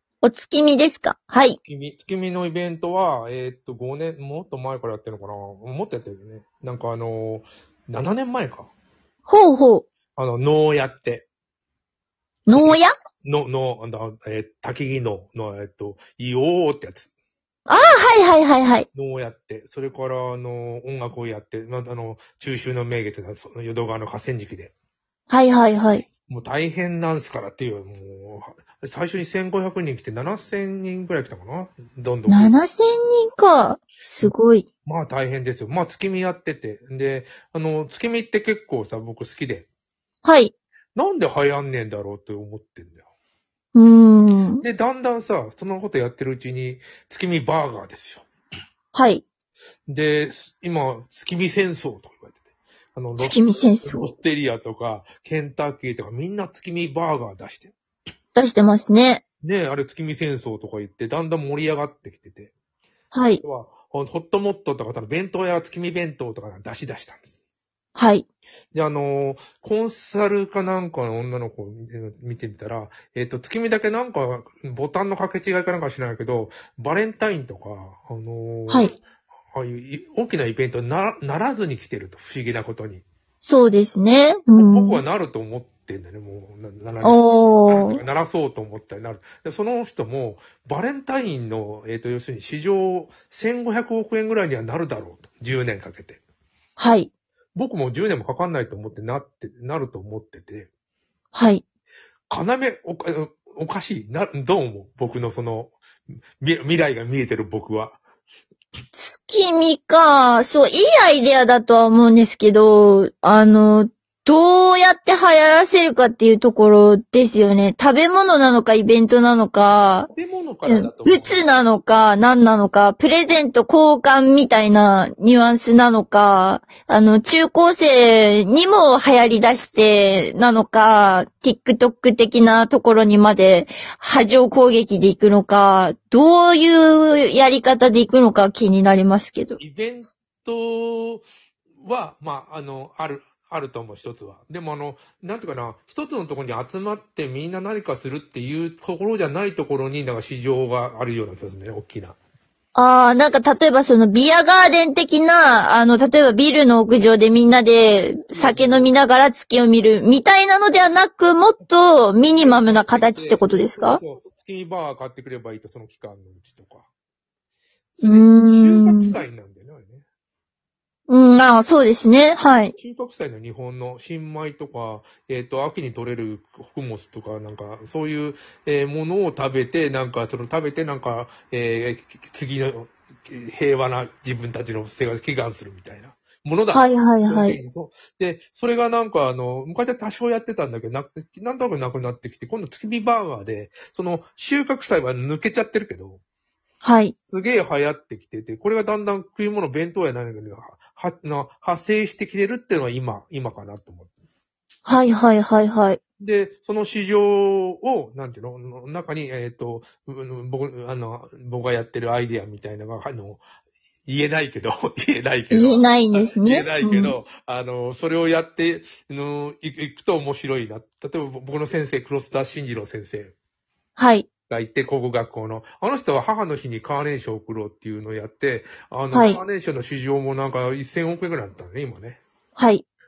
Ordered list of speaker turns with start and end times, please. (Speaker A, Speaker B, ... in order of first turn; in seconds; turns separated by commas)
Speaker A: 0.2-1.6, Speaker B: 1.6-8.7, Speaker A: 9.3-9.8, Speaker B: 10.2-11.3, Speaker A: 12.5-12.9, Speaker B: 12.6-17.1, Speaker A: 17.7-18.9, Speaker B: 18.9-24.7, Speaker A: 25.3-26.1, Speaker B: 26.3-32.6, Speaker A: 32.3-34.7, Speaker B: 34.9-39.7, Speaker A: 40.2-40.5, Speaker B: 41.0-43.0, Speaker A: 43.8-44.6, Speaker B: 44.6-48.2, Speaker A: 48.9-49.2, Speaker B: 49.9-52.4, Speaker B: 53.0-57.7, Speaker A: 53.2-54.1, Speaker A: 58.3-59.2, Speaker B: 59.4-62.5, Speaker A: 63.1-63.4, Speaker B: 63.4-67.3, Speaker A: 68.0-68.2, Speaker B: 68.7-79.0, Speaker A: 78.7-78.9, Speaker B: 79.5-83.0, Speaker A: 83.4-85.0, Speaker B: 84.5-96.2, Speaker A: 87.0-88.0, Speaker A: 96.8-97.1, Speaker B: 97.5-100.7, Speaker A: 101.3-101.6, Speaker B: 102.3-105.8, Speaker B: 106.4-108.0, Speaker A: 108.9-120.1, Speaker B: 120.1-121.5, Speaker A: 120.6-139.6, Speaker B: 139.6-141.2, Speaker B: 141.8-152.2, Speaker A: 152.8-164.0, Speaker B: 158.3-158.9, Speaker B: 162.2-166.8, Speaker B: 167.9-170.1, Speaker A: 168.0-169.2, Speaker A: 171.1-172.7, Speaker B: 172.8-196.2, Speaker A: 186.7-187.6, Speaker A: 196.8-197.1, Speaker B: 197.3-204.1, Speaker A: 204.8-206.0, Speaker B: 206.2-213.4, Speaker B: 214.1-223.3, Speaker A: 215.5-217.1, Speaker A: 224.0-224.3, Speaker B: 224.5-232.2, Speaker A: 229.1-229.4, Speaker A: 232.6-232.8